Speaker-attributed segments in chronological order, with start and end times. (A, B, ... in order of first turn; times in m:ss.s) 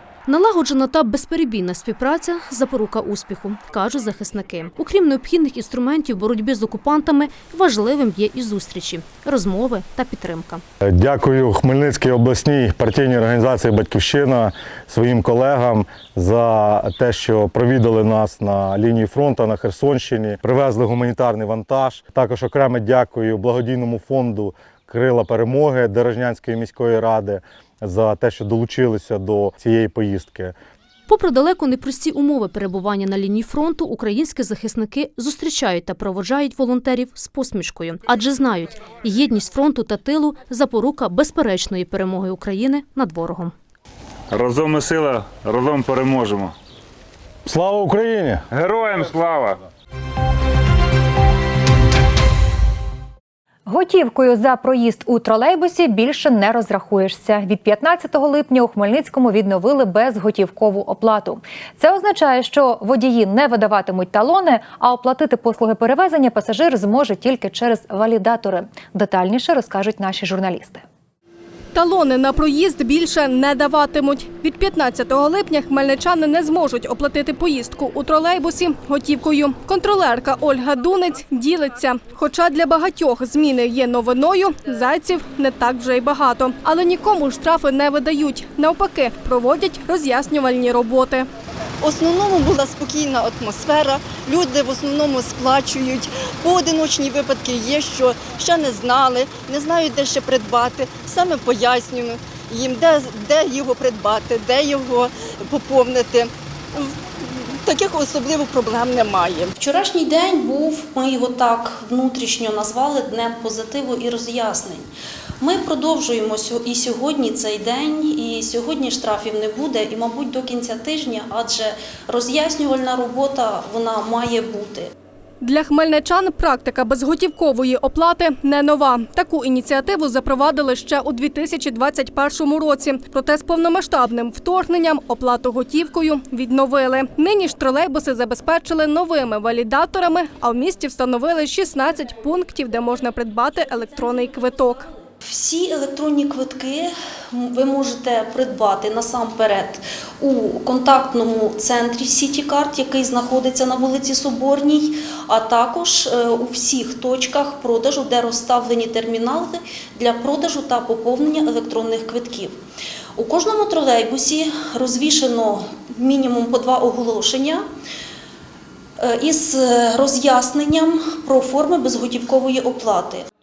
0:00.3-0:10.6 A
0:10.9-0:30.5 B
0:31.1-0:43.5 A
0:44.3-0:46.5 C
0:47.5-0:48.4 B
0:48.5-0:49.6 C
0:53.7-1:10.8 D
1:11.7-1:31.3 E
1:31.8-1:46.3 F
1:47.6-1:49.5 F
1:49.6-2:04.9 G
2:05.4-2:24.9 E
2:25.2-2:42.6 G
2:43.2-2:47.6 G
2:49.0-2:53.3 G